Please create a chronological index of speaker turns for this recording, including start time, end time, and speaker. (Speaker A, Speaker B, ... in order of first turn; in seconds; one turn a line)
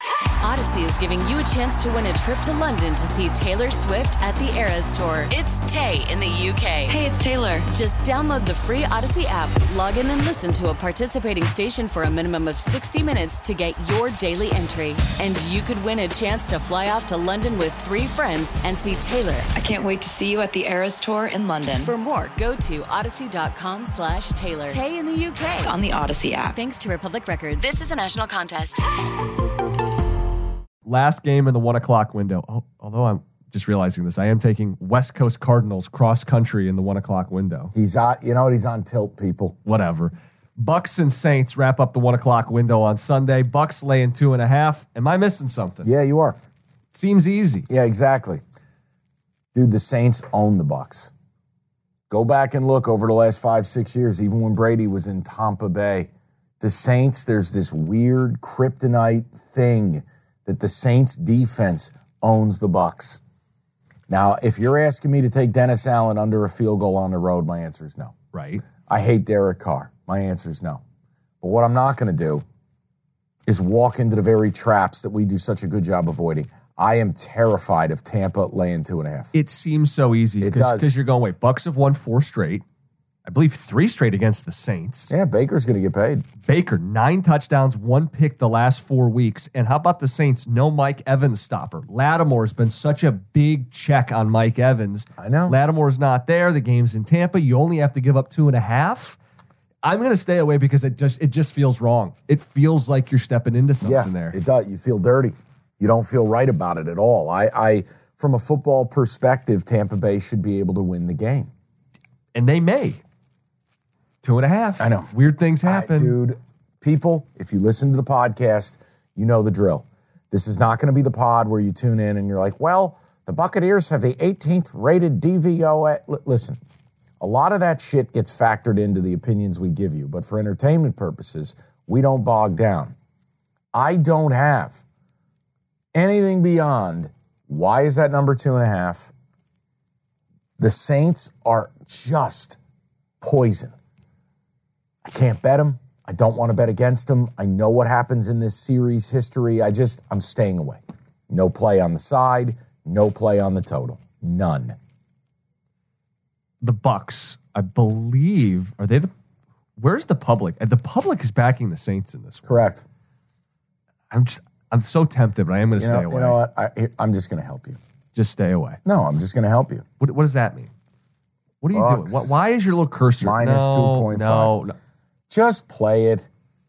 Speaker A: 0.4-7.0
Speaker B: 6.9-7.7
Speaker A: 7.7-19.5
Speaker B: 19.5-21.9
Speaker A: 21.8-25.7
Speaker B: 25.6-26.6
Speaker A: 26.5-28.9
Speaker C: 30.9-37.7
Speaker D: 37.8-39.6
Speaker C: 39.7-45.9
Speaker D: 45.8-46.4
Speaker C: 46.9-47.7
Speaker D: 47.7-48.4
Speaker D: 49.5-51.1
Speaker D: 52.1-56.1
Speaker D: 56.6-63.2
Speaker D: 64.1-68.2
Speaker C: 68.3-68.7
Speaker D: 68.8-70.8
Speaker D: 71.4-72.4
Speaker D: 73.5-79.3
Speaker C: 79.3-82.6
Speaker D: 80.4-81.0
Speaker C: 83.2-85.1
Speaker D: 85.1-86.3
Speaker C: 86.4-99.2
Speaker D: 95.2-95.6
Speaker C: 99.8-104.3
Speaker D: 103.8-111.5
Speaker C: 112.3-113.0
Speaker C: 114.2-116.2
Speaker D: 114.8-115.1
Speaker D: 115.6-126.6
Speaker D: 127.2-133.0
Speaker D: 133.7-134.8
Speaker D: 135.9-139.1
Speaker D: 140.6-142.6
Speaker D: 143.2-143.8
Speaker D: 145.1-154.8
Speaker C: 156.6-159.1
Speaker C: 159.8-162.5
Speaker D: 162.5-162.8
Speaker C: 164.1-166.4
Speaker D: 165.8-167.8
Speaker C: 168.2-168.8
Speaker D: 168.9-169.9
Speaker C: 170.0-170.7
Speaker C: 171.6-174.7
Speaker D: 171.7-172.4
Speaker D: 173.2-174.6
Speaker D: 175.3-176.3